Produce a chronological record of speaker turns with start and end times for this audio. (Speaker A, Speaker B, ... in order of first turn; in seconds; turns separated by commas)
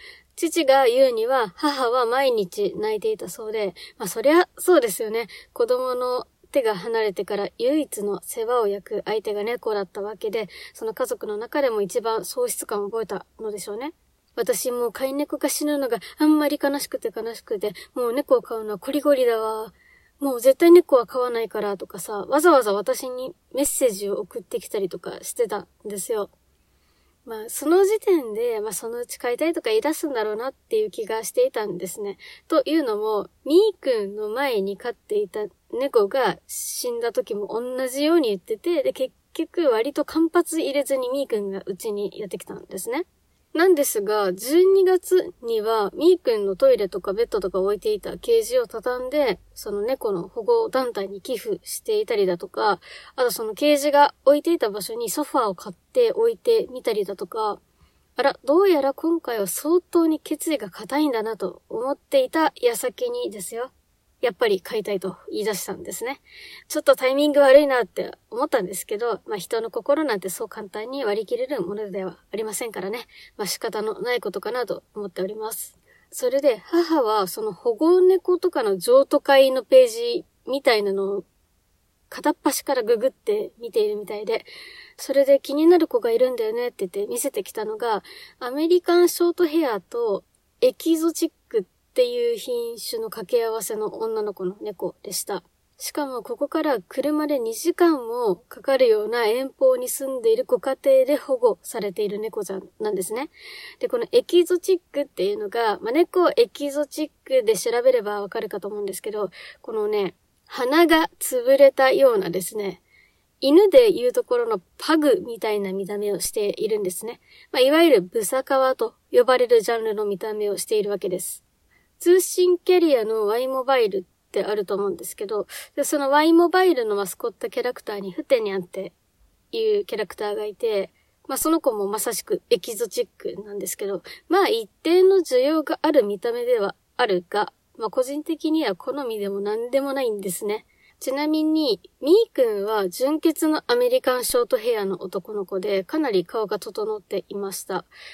Speaker A: 0.3-26.3, Speaker A: 27.3-57.6, Speaker A: 58.2-81.2, Speaker A: 82.1-112.8, Speaker A: 113.4-121.4, Speaker A: 122.0-128.9, Speaker A: 129.5-147.9